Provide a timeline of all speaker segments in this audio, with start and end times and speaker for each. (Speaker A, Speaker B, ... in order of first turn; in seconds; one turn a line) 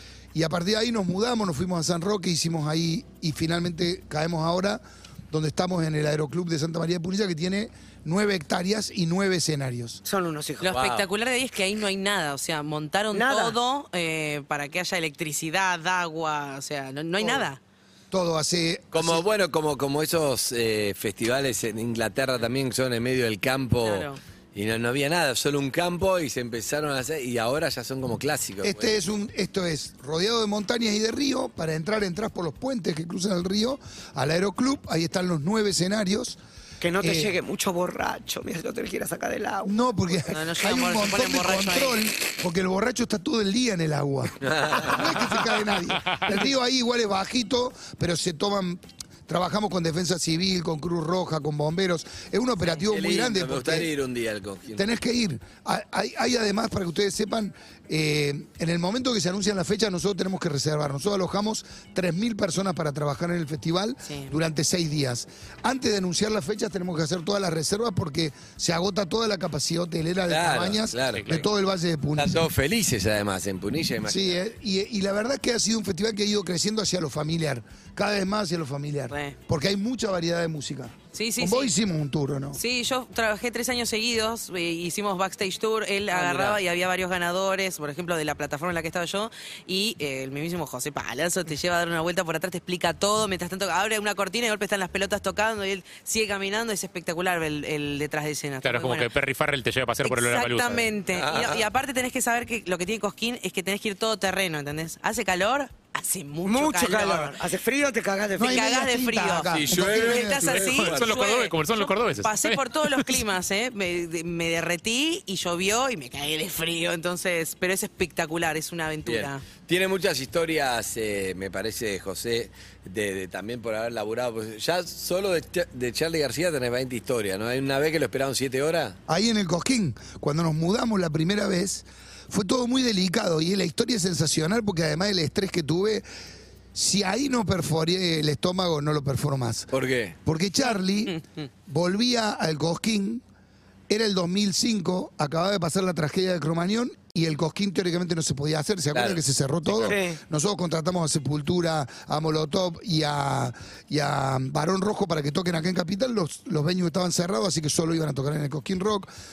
Speaker A: 0.3-10.0
Speaker B: 10.1-10.7
Speaker C: 10.6-17.6
Speaker D: 10.7-11.1
Speaker B: 13.1-13.6
Speaker B: 17.2-17.4
Speaker A: 18.1-19.2
Speaker D: 18.9-29.0
Speaker C: 23.8-24.2
Speaker A: 28.6-36.4
Speaker B: 36.8-40.3
Speaker A: 37.0-37.3
Speaker A: 39.6-53.9
Speaker C: 40.3-42.0
Speaker D: 44.4-45.1
Speaker D: 52.8-54.8
Speaker A: 54.7-72.4
Speaker C: 64.0-64.3
Speaker D: 70.3-71.4
Speaker E: 71.2-71.4
Speaker D: 72.2-74.4
Speaker A: 74.0-82.6
Speaker C: 79.1-79.3
Speaker C: 81.1-81.7
Speaker C: 82.5-99.1
Speaker D: 86.1-86.6
Speaker E: 98.6-100.9
Speaker C: 100.0-107.3
Speaker D: 101.1-101.7
Speaker B: 106.5-108.6
Speaker A: 108.4-110.6
Speaker C: 108.4-119.4
Speaker D: 109.5-111.1
Speaker E: 110.5-113.2
Speaker D: 119.0-129.0
Speaker A: 129.1-136.0
Speaker A: 136.7-139.7
Speaker D: 139.7-140.1
Speaker A: 140.2-143.2
Speaker A: 143.9-159.1
Speaker D: 148.9-150.0
Speaker B: 149.8-150.2